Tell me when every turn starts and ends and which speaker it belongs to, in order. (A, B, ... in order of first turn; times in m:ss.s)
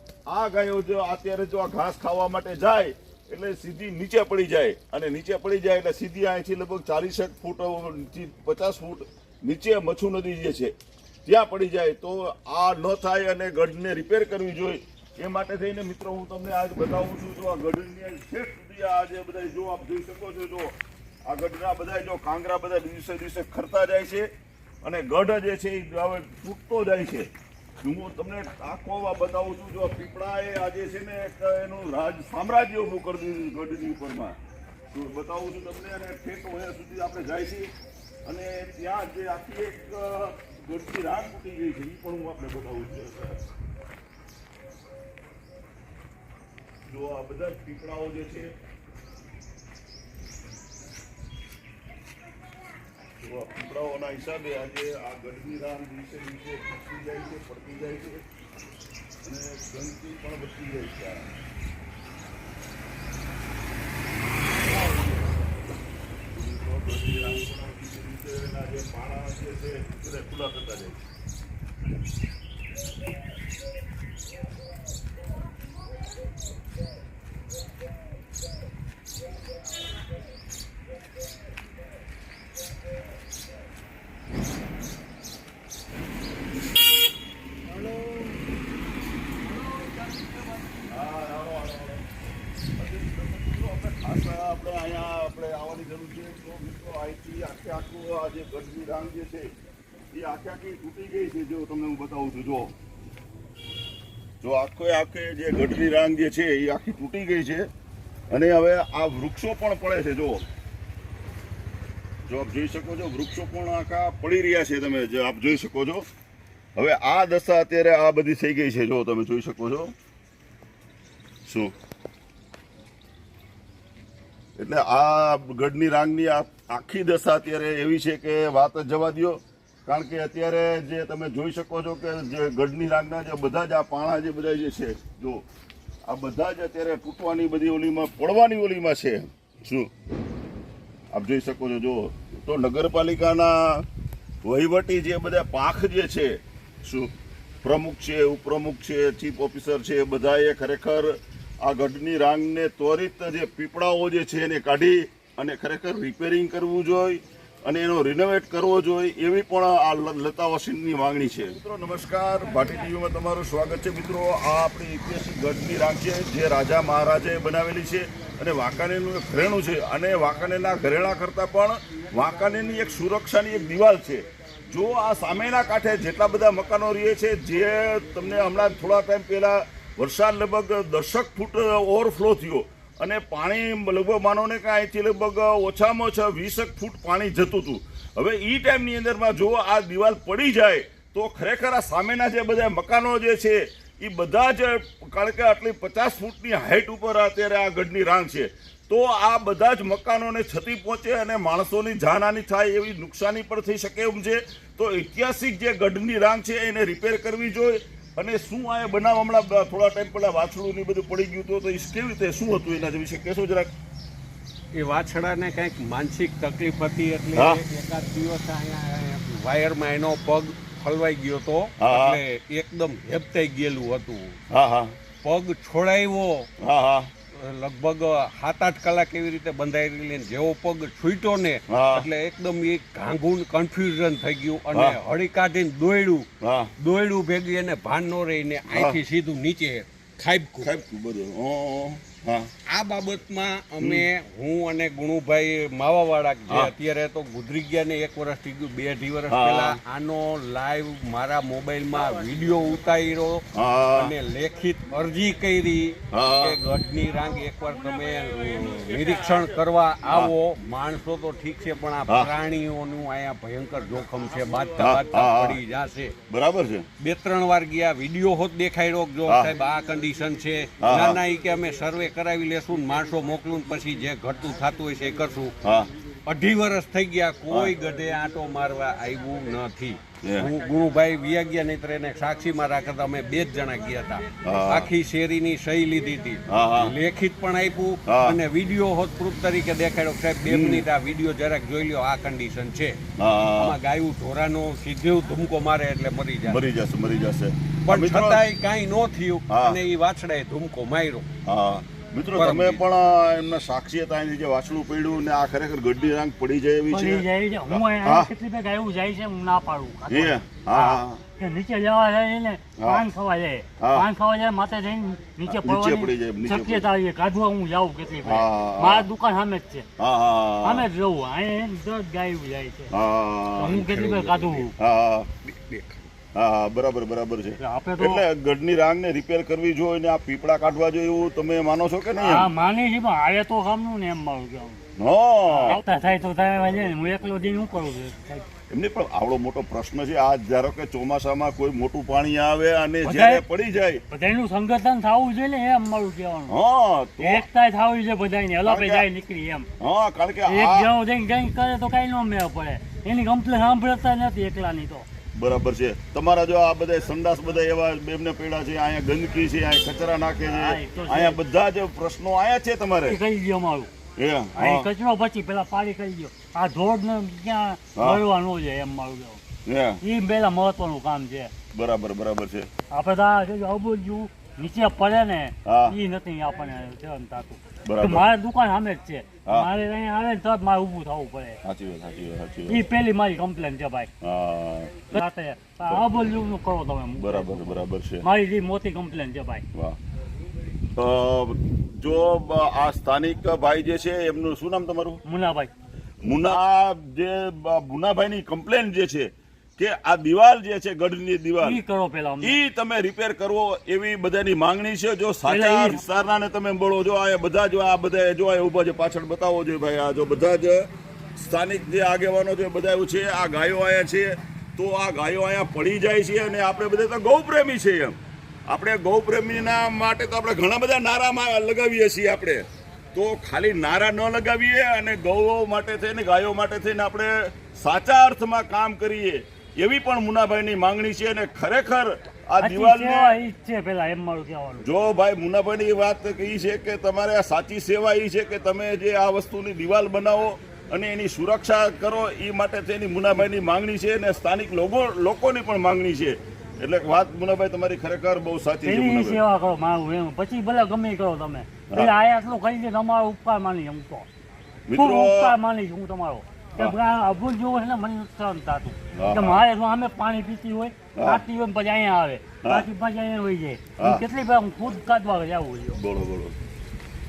0:00.3-0:10.7 A
0:11.2-0:24.3 A
0:24.8-0:27.3 A
0:27.8-0:34.4 A
0:34.9-0:37.7 A
0:38.2-0:43.4 A
0:46.8-0:48.5 A
0:53.2-0:58.2 A
0:59.2-1:01.3 A
1:04.6-1:05.3 A
1:06.3-1:11.0 A
1:30.8-1:32.0 A
1:32.8-1:39.5 A
1:40.1-1:42.7 A
1:44.4-1:47.7 A
1:48.3-1:50.4 A
1:52.2-1:56.0 A
1:56.8-1:59.9 A
2:01.5-2:01.7 A
2:04.6-2:15.4 A
2:16.0-2:19.9 A
2:21.1-2:23.8 A
2:24.4-2:27.1 A
2:27.6-3:33.7 A
3:34.7-3:44.4 B
3:41.8-3:42.2 A
3:44.5-3:45.0 A
3:45.2-3:46.5 B
3:46.6-3:47.1 A
3:47.3-3:56.3 B
3:51.7-3:52.1 A
3:54.7-3:55.0 A
3:56.4-3:56.7 A
3:56.8-4:00.7 B
3:58.7-3:59.0 A
4:00.6-4:02.5 A
4:02.7-4:26.2 B
4:03.8-4:04.1 A
4:09.3-4:09.8 A
4:13.5-4:14.1 A
4:16.1-4:16.6 A
4:24.8-4:25.6 A
4:26.3-4:26.9 A
4:27.0-4:35.5 B
4:29.2-4:29.6 A
4:30.8-4:31.2 A
4:35.6-4:35.9 A
4:36.2-4:53.0 B
4:40.2-4:40.5 A
4:44.4-4:44.9 A
4:46.5-4:46.9 A
4:48.1-4:48.4 A
4:50.4-4:50.9 A
4:53.2-4:53.8 A
4:53.6-4:56.7 B
4:56.4-4:58.4 A
4:57.8-5:01.3 B
4:59.5-4:59.8 A
5:01.4-5:08.3 A
5:02.3-5:02.8 B
5:06.9-5:19.8 C
5:10.1-5:11.2 A
5:12.8-5:13.0 A
5:13.8-5:14.1 A
5:15.4-5:16.9 A
5:18.2-5:19.1 A
5:20.0-5:20.9 A
5:20.6-5:22.9 C
5:22.9-5:23.8 A
5:23.6-5:24.7 C
5:23.6-5:24.7 B
5:24.8-5:25.3 A
5:25.4-5:26.0 B
5:26.3-5:32.5 A
5:27.6-5:28.2 C
5:32.2-5:34.8 C
5:35.0-5:37.7 A
5:35.5-5:38.5 C
5:38.7-5:44.0 A
5:43.0-5:43.4 C
5:44.1-5:46.5 C
5:46.5-5:47.5 A
5:47.2-5:49.7 C
5:48.6-5:49.0 A
5:49.8-5:50.9 A
5:50.5-5:55.1 C
5:55.3-6:03.2 A
6:00.5-6:01.4 C
6:03.0-6:03.9 C
6:04.2-6:04.9 A
6:04.5-6:09.4 C
6:07.9-6:08.2 A
6:09.6-6:10.0 A
6:10.0-6:11.5 C
6:11.7-6:12.7 A
6:12.9-6:21.6 C
6:15.6-6:16.0 A
6:17.8-6:18.3 A
6:21.6-6:22.8 A
6:22.7-6:24.1 C
6:24.2-6:25.2 A
6:25.1-6:29.6 C
6:25.9-6:26.2 A
6:27.2-6:28.2 A
6:29.7-6:30.0 A
6:31.0-6:35.2 A
6:35.2-6:35.7 C
6:36.2-6:41.8 A
6:41.6-6:42.6 C
6:42.4-7:13.4 A
6:45.4-6:46.0 C
7:12.6-7:14.8 C
7:14.8-7:29.4 A
7:28.8-7:34.3 C
7:34.9-7:35.5 A
7:35.0-7:46.0 C
7:39.1-7:39.6 A
7:41.1-7:41.4 A
7:42.6-7:42.9 A
7:44.0-7:44.2 A
7:45.9-7:46.6 A